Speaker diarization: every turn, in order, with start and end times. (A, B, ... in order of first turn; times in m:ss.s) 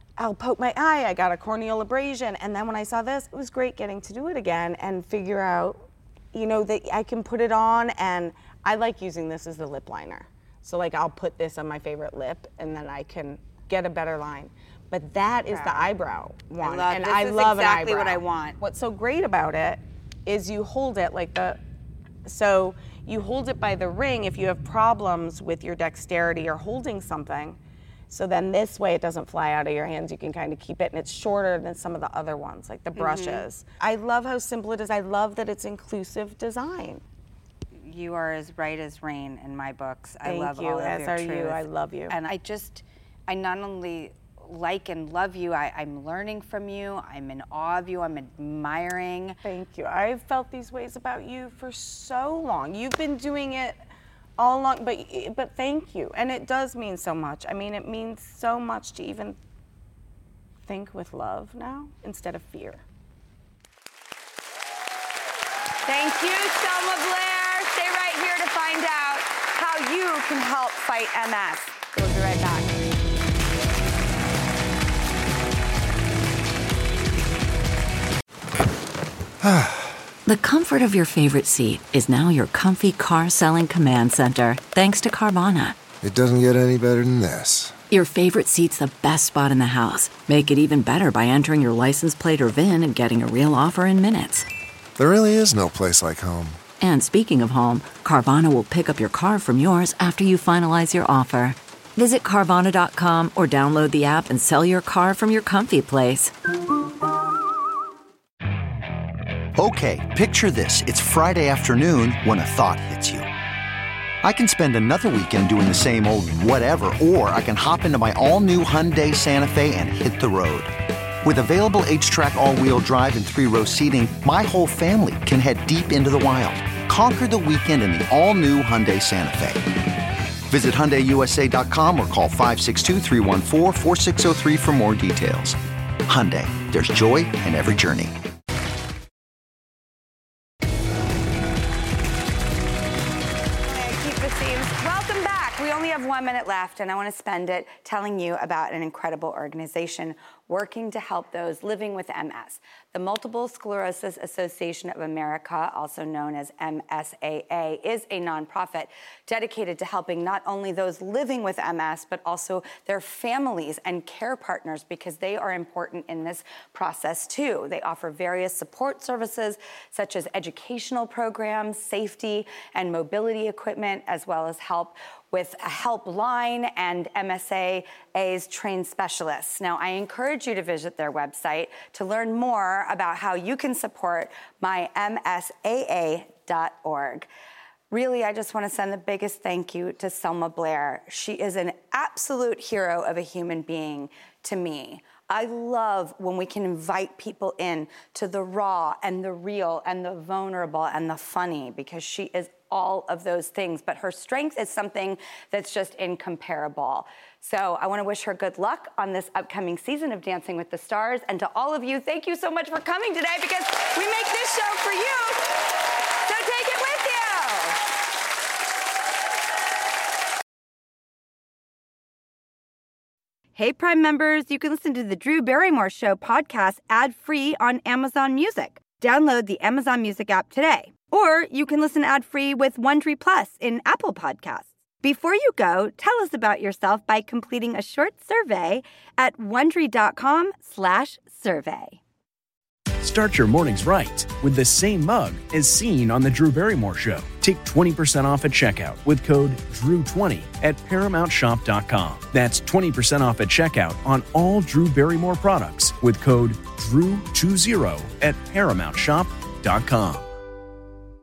0:00.2-0:21.6 A
0:15.5-0:15.9 B
0:16.6-0:18.6 B
0:22.2-0:27.6 A
0:28.1-0:37.0 A
0:32.9-0:33.5 B
0:37.8-0:49.4 B
0:40.2-0:42.1 A
0:49.4-0:53.8 A
0:54.4-0:59.4 A
1:00.6-1:02.8 A
1:05.9-1:12.7 B
1:19.4-1:20.0 C
1:20.2-1:25.8 D
1:26.0-1:27.8 C
1:27.9-1:34.5 D
1:35.0-1:36.6 C
1:36.8-1:46.3 D
1:49.6-1:53.3 E
1:54.2-2:00.7 E
2:01.2-2:09.6 E
2:10.5-2:18.1 E
2:23.6-3:07.3 B
3:07.9-3:37.8 B
3:43.6-4:02.0 B
4:03.0-4:20.3 F